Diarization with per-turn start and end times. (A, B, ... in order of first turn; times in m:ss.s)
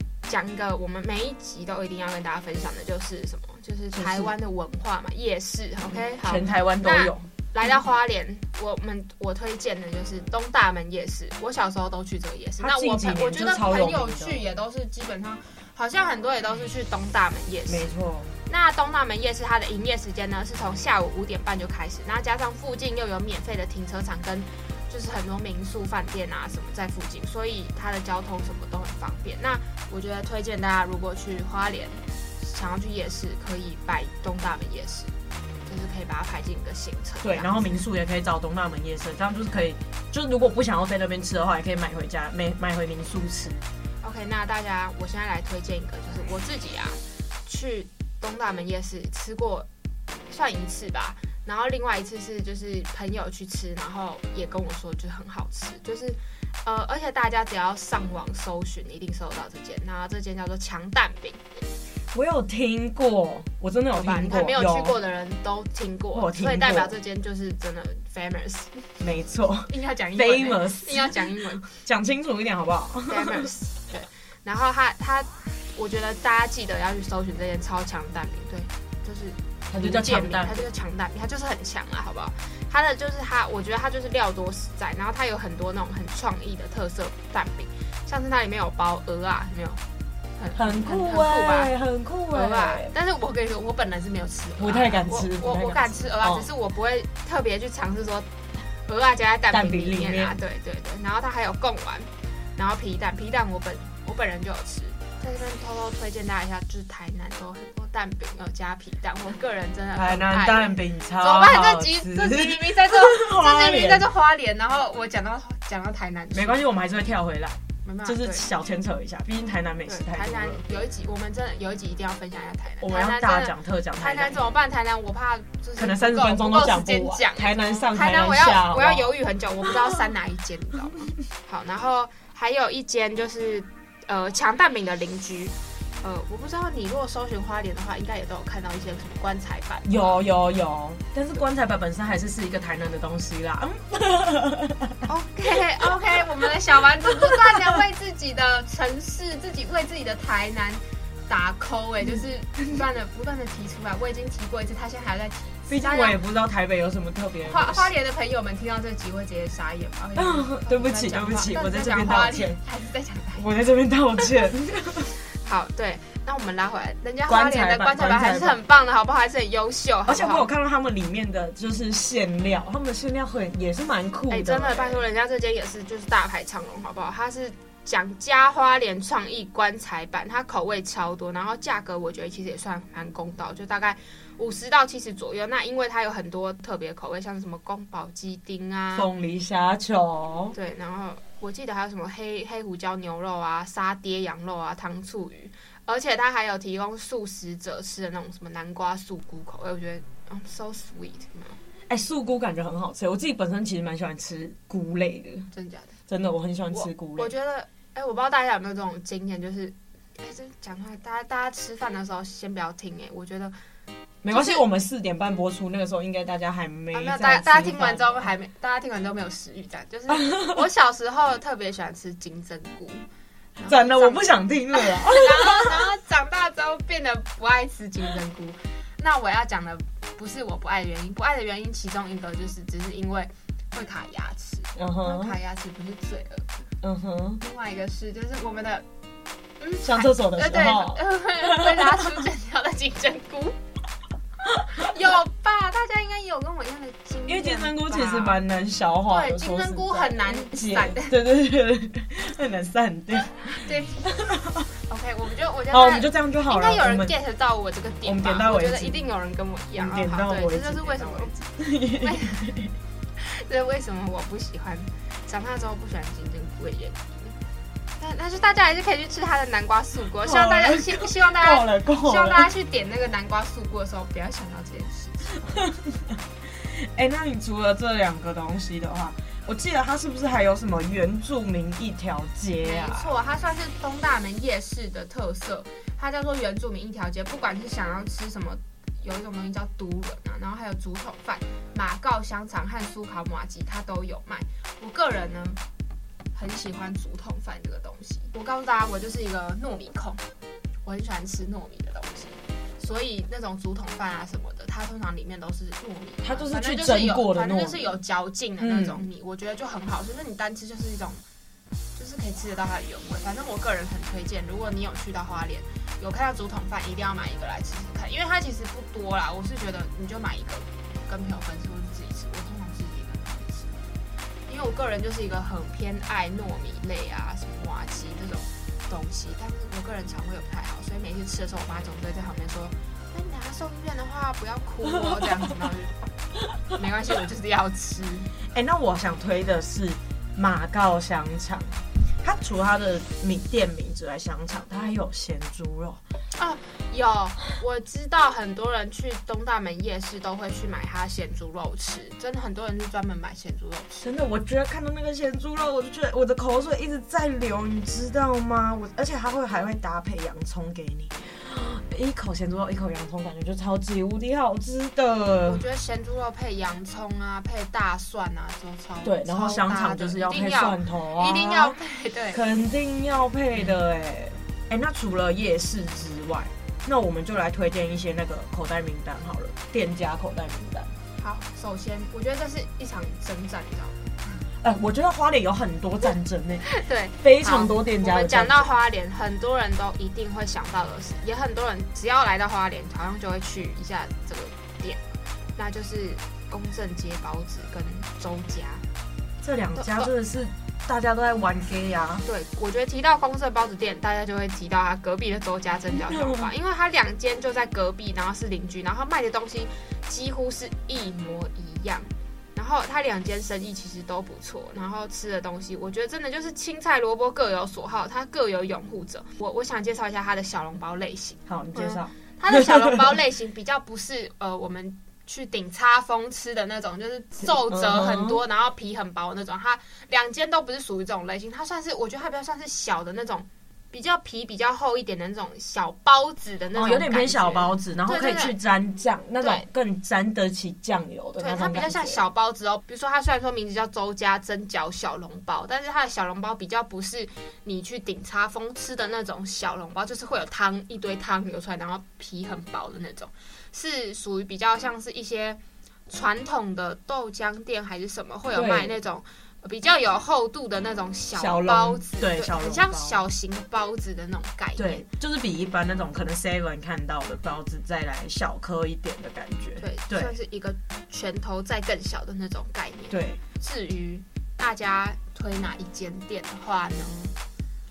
0:00.3-0:17.9 A
0:03.9-0:04.3 B
0:06.0-0:07.3 B
0:12.6-0:14.4 B
0:17.7-0:18.3 B
0:18.5-0:35.1 A
0:35.7-0:37.8 A
0:37.2-0:43.6 B
0:44.0-0:49.7 A
0:50.3-1:01.4 A
1:02.1-1:05.0 B
1:03.9-1:08.8 A
1:06.1-1:07.0 B
1:09.0-1:13.5 B
1:09.7-1:11.8 A
1:13.1-1:29.8 A
1:19.7-1:20.7 B
1:30.4-1:31.7 A
1:30.6-1:32.9 B
1:32.3-1:38.3 A
1:34.6-1:36.5 B
1:38.8-1:56.6 A
1:39.5-1:40.4 B
1:49.9-1:54.1 B
1:56.3-2:00.6 B
1:57.8-1:58.5 A
1:59.9-2:20.2 A
2:02.8-2:04.4 B
2:05.8-2:09.2 B
2:19.8-2:25.0 B
2:25.1-2:36.2 A
2:27.2-2:27.6 B
2:35.7-2:37.9 B
2:37.4-2:43.5 A
2:40.2-2:42.6 B
2:43.4-2:45.1 B
2:45.4-2:50.5 A
2:47.3-2:48.6 B
2:50.1-2:55.0 B
2:54.3-3:09.1 A
3:08.9-3:10.6 B
3:10.5-3:21.6 A
3:21.9-3:25.5 B
3:25.5-3:26.0 A
3:26.1-3:27.3 B
3:26.7-3:33.6 A
3:34.2-3:38.3 B
3:34.3-3:34.6 A
3:36.9-3:43.0 A
3:40.1-3:40.6 B
3:43.6-3:56.7 A
3:43.6-3:45.8 B
3:54.8-3:55.4 B
3:56.8-3:57.4 B
3:57.4-3:58.9 A
3:59.6-4:03.6 A
3:59.8-4:02.2 B
4:04.7-4:08.4 A
4:07.3-4:14.7 B
4:09.1-4:11.2 A
4:13.6-4:14.1 A
4:14.9-4:22.5 A
4:15.7-4:17.2 B
4:18.0-4:19.1 B
4:19.8-4:22.7 B
4:23.2-4:27.4 A
4:28.0-4:35.6 A
4:30.2-4:32.5 B
4:35.5-4:43.1 B
4:42.6-4:55.6 A
4:56.4-5:00.2 A
5:00.8-5:11.2 A
5:06.2-5:08.0 B
5:08.6-5:09.1 B
5:12.0-5:23.9 A
5:24.5-5:35.9 A
5:35.0-5:35.3 B
5:36.8-5:38.3 A
5:38.5-5:46.0 B
5:46.4-5:54.1 A
5:54.0-6:05.6 B
6:05.4-6:12.4 A
6:09.0-6:11.8 B
6:12.3-6:20.9 B
6:21.2-6:24.4 A
6:24.6-6:26.6 B
6:26.6-6:35.0 A
6:27.2-6:28.7 B
6:35.6-6:38.8 A
6:39.4-6:42.3 B
6:39.8-6:40.1 A
6:42.2-7:18.6 A
6:46.0-6:46.5 B
7:01.5-7:03.1 B
7:07.4-7:08.4 B
7:16.7-7:22.2 B
7:19.4-7:19.7 A
7:21.4-7:45.1 A
7:38.5-7:39.0 B
7:41.4-7:43.2 B
7:44.8-7:50.3 B
7:49.8-7:57.4 A
7:53.1-7:53.4 B